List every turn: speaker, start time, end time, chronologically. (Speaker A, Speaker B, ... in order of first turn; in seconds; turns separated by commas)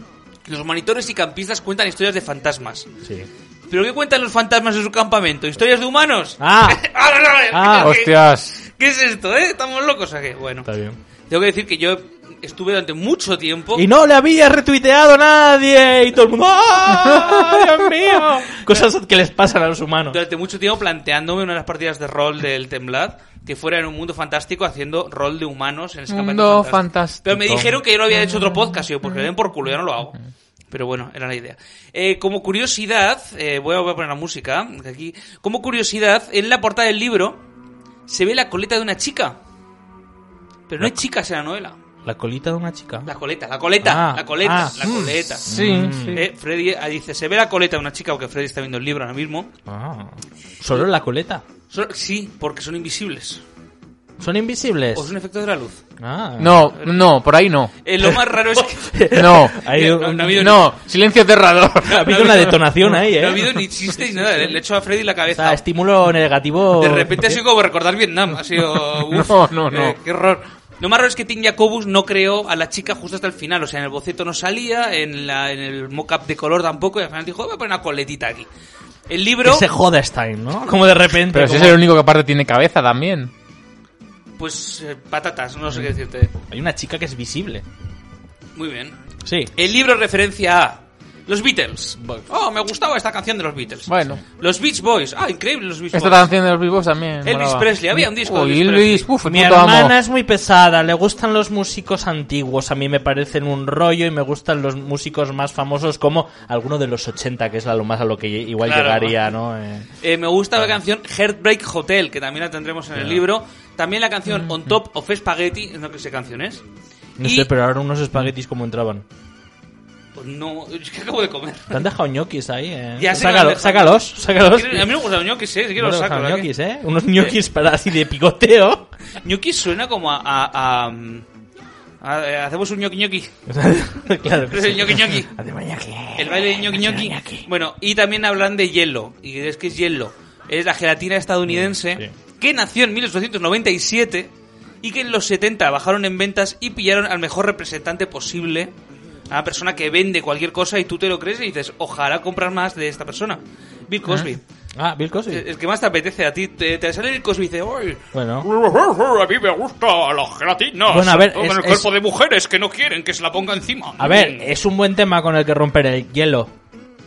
Speaker A: 0.5-2.9, Speaker B: 3.0-3.3, Speaker A: 3.7-10.7, Speaker B: 6.4-6.8, Speaker B: 7.5-8.0, Speaker C: 7.8-8.6, Speaker B: 10.7-11.0, Speaker A: 11.3-13.8, Speaker B: 13.8-20.2, Speaker C: 17.1-17.5, Speaker A: 20.1-30.2, Speaker C: 26.1-27.8, Speaker A: 30.7-37.4, Speaker A: 38.1-39.4, Speaker A: 40.7-41.8, Speaker B: 42.0-43.1, Speaker A: 43.0-49.5, Speaker B: 43.8-44.9, Speaker C: 44.8-46.2, Speaker B: 45.4-46.2, Speaker B: 49.7-51.4, Speaker A: 51.7-53.4, Speaker B: 54.2-55.1, Speaker A: 54.9-55.8, Speaker B: 56.0-56.6, Speaker C: 56.4-57.7, Speaker A: 56.8-57.0, Speaker A: 57.8-59.0, Speaker B: 58.0-60.6, Speaker C: 59.1-59.6, Speaker A: 59.6-60.6, Speaker C: 60.3-62.6, Speaker B: 61.8-64.6, Speaker A: 61.9-65.6, Speaker B: 65.3-67.4, Speaker A: 66.8-78.5, Speaker C: 69.0-70.0, Speaker A: 79.1-79.7, Speaker B: 79.4-81.8, Speaker C: 81.3-83.3, Speaker A: 84.4-86.3, Speaker B: 86.4-87.7, Speaker A: 88.6-89.0, Speaker B: 89.2-89.5, Speaker A: 89.5-96.3, Speaker C: 93.9-94.2, Speaker C: 95.9-99.9, Speaker A: 97.2-99.1, Speaker B: 99.3-109.9, Speaker A: 108.6-109.2, Speaker A: 110.0-116.6, Speaker B: 112.9-113.2, Speaker B: 117.2-119.0, Speaker A: 117.2-117.5, Speaker A: 120.2-121.8, Speaker B: 121.7-125.0, Speaker A: 123.0-126.5, Speaker B: 125.8-128.9, Speaker A: 129.2-131.3, Speaker A: 132.0-133.4, Speaker B: 133.5-137.5, Speaker A: 134.5-135.3, Speaker A: 136.2-148.7, Speaker B: 141.5-142.1, Speaker A: 149.3-154.4, Speaker B: 154.8-155.4, Speaker A: 155.3-164.5, Speaker B: 158.1-158.5, Speaker B: 160.9-161.9, Speaker B: 164.0-166.5